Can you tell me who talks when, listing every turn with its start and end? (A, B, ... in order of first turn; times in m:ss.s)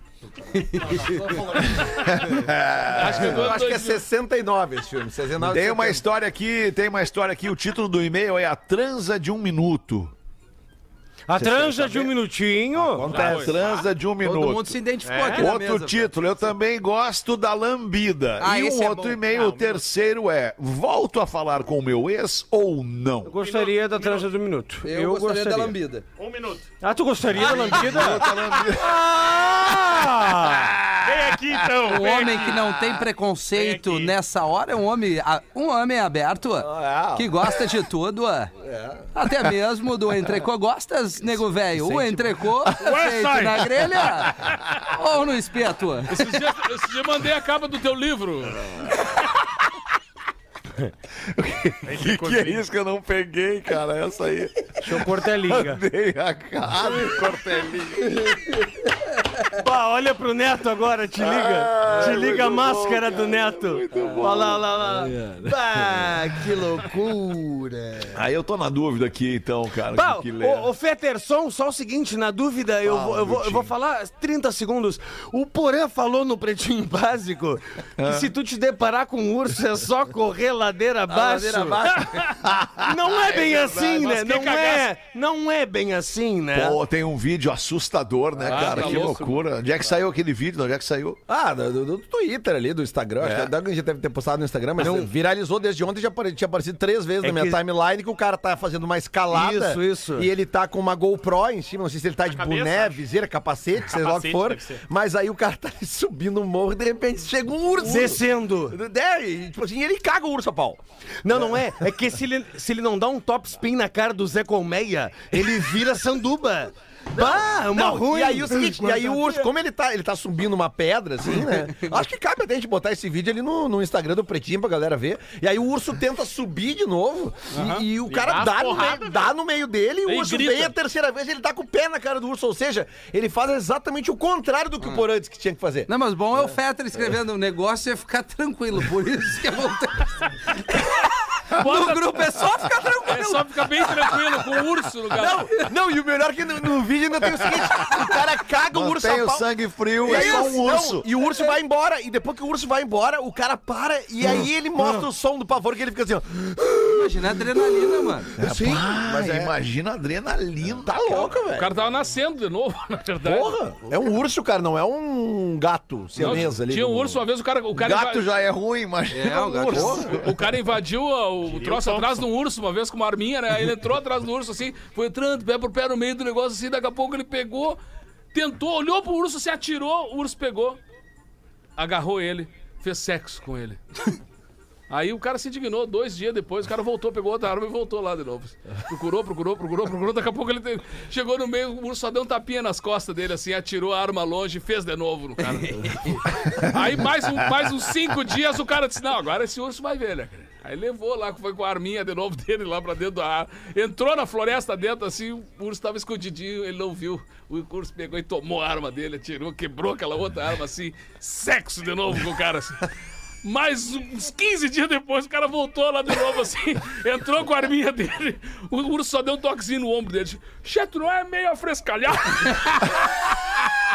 0:00.4-0:01.6 A
0:00.8-0:02.1 B
0:01.8-0:03.6 C
0:02.9-0:04.0 D
0:02.9-0:06.0 B
0:05.4-0:10.1 C
0:11.3-0:13.2 E
0:11.4-0:12.1 C
0:12.8-0:13.6 B
0:13.1-0:14.8 C
0:13.1-0:13.6 D
0:14.2-0:16.2 A
0:15.0-0:15.5 F
0:15.3-0:23.4 C
0:18.4-0:19.2 A
0:19.3-0:19.8 F
0:23.3-0:25.8 E
0:23.4-0:24.3 F
0:24.8-0:26.0 A
0:26.2-0:26.8 F
0:26.8-0:30.8 E
0:27.3-0:28.2 F
0:27.5-0:31.8 C
0:31.0-0:32.7 F
0:31.8-0:38.5 A
0:33.5-0:34.2 F
0:36.6-0:37.3 B
0:38.6-0:39.1 B
0:39.1-0:46.3 A
0:41.8-0:42.7 C
0:42.7-0:43.7 D
0:46.1-0:48.7 D
0:51.2-0:58.2 C
0:51.9-0:52.6 F
0:54.8-0:55.8 E
0:59.5-1:08.2 E
1:01.2-1:04.8 C
1:05.0-1:06.2 B
1:08.1-1:10.7 C
1:09.9-1:22.1 E
1:12.8-1:13.7 B
1:18.0-1:18.3 C
1:21.1-1:22.1 B
1:22.2-1:24.1 C
1:22.7-1:26.8 E
1:23.9-1:24.9 D
1:26.5-1:31.2 C
1:28.4-1:29.2 B
1:28.5-1:29.4 D
1:31.3-1:50.8 B
1:33.2-1:33.5 C
1:34.8-1:35.1 E
1:37.2-1:37.6 E
1:39.3-1:40.3 E
1:42.3-1:43.1 F
1:43.9-1:44.8 F
1:47.8-1:48.8 E
1:51.2-1:59.5 E
1:57.1-2:15.9 B
2:07.5-2:07.8 D
2:08.1-2:09.3 F
2:10.1-2:10.7 D
2:15.9-2:24.1 A
2:21.6-2:22.2 D
2:23.0-2:25.6 D
2:25.1-2:29.5 B
2:27.4-2:31.1 C
2:30.0-2:39.5 B
2:30.1-2:30.5 A
2:36.9-2:38.3 A
2:38.4-2:41.4 C
2:40.8-2:41.7 B
2:41.5-2:43.6 D
2:43.2-2:47.2 B
2:46.2-2:48.3 D
2:47.7-2:50.6 C
2:49.1-2:50.2 A
2:49.7-2:50.1 B
2:50.1-2:57.8 D
2:51.4-2:52.2 F
2:58.3-3:00.8 D
3:01.8-3:04.2 D
3:04.9-3:32.8 D
3:17.4-3:17.7 C
3:33.4-3:43.0 D